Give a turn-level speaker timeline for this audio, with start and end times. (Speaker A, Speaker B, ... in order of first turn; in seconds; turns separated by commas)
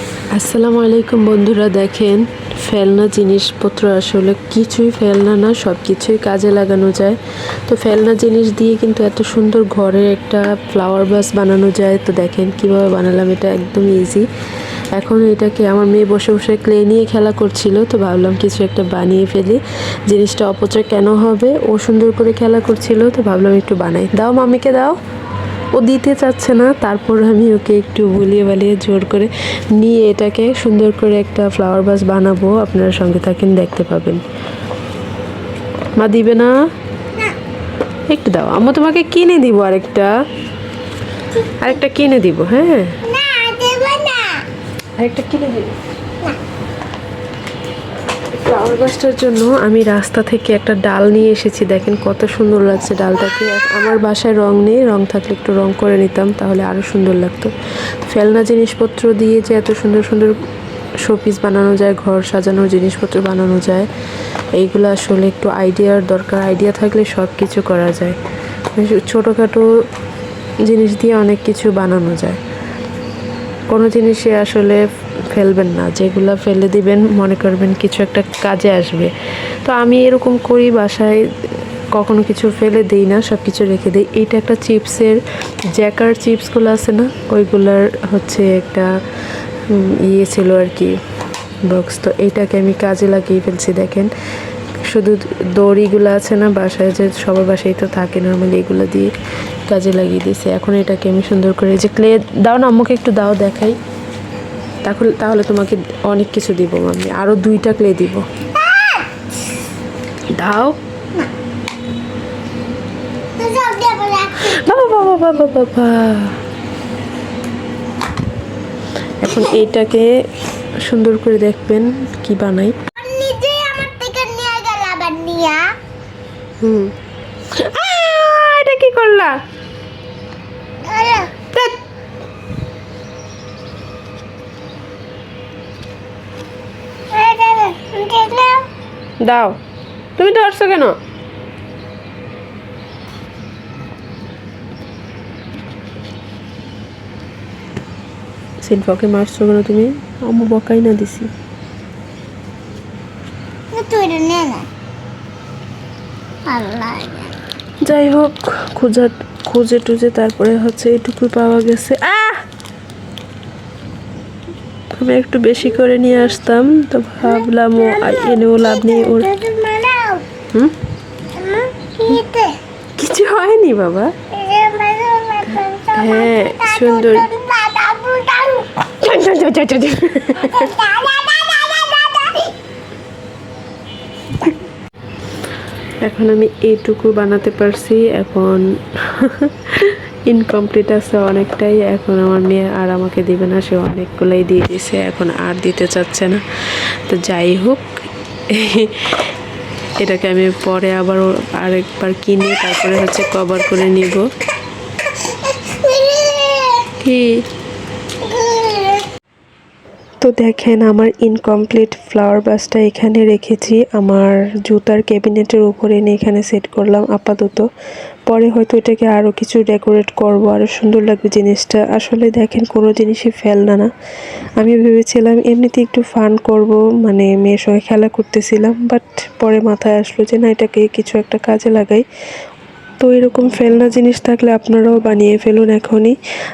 Speaker A: 0.3-14.3, Speaker A: 14.9-25.0, Speaker A: 25.8-34.2, Speaker A: 36.0-36.5, Speaker A: 38.1-40.1, Speaker A: 41.4-43.0, Speaker B: 43.0-44.5, Speaker A: 45.0-45.7, Speaker A: 48.3-60.4, Speaker A: 61.0-63.9, Speaker A: 64.5-68.2, Speaker A: 68.7-69.7, Speaker A: 70.6-72.4, Speaker A: 73.7-79.1, Speaker A: 79.6-81.2, Speaker A: 81.9-85.2, Speaker A: 85.7-88.9, Speaker A: 89.7-90.9, Speaker A: 91.7-94.1, Speaker A: 94.8-99.1, Speaker A: 99.7-103.8, Speaker A: 104.8-108.2, Speaker B: 108.6-109.0, Speaker A: 110.3-110.8, Speaker B: 113.4-114.7, Speaker A: 114.4-116.4, Speaker A: 119.2-120.1, Speaker A: 120.8-122.8, Speaker B: 123.0-125.7, Speaker A: 126.6-126.9, Speaker A: 127.5-129.3, Speaker B: 130.8-131.3, Speaker B: 137.1-138.7, Speaker A: 139.2-139.6, Speaker A: 140.2-140.9, Speaker A: 148.6-151.3, Speaker B: 153.7-154.7, Speaker B: 156.5-157.3, Speaker A: 157.8-162.4, Speaker A: 164.9-169.3, Speaker B: 167.3-170.2, Speaker B: 171.3-172.6, Speaker A: 173.0-174.1, Speaker B: 174.3-178.8, Speaker A: 175.9-177.3, Speaker A: 178.8-180.7, Speaker B: 180.4-182.6, Speaker A: 186.0-196.4, Speaker A: 197.1-197.9, Speaker A: 198.5-199.3, Speaker A: 200.0-204.2, Speaker B: 205.4-206.9, Speaker A: 206.9-207.4, Speaker B: 208.2-209.0, Speaker A: 210.2-217.7, Speaker A: 218.3-223.9, Speaker A: 224.6-232.0, Speaker A: 233.0-236.2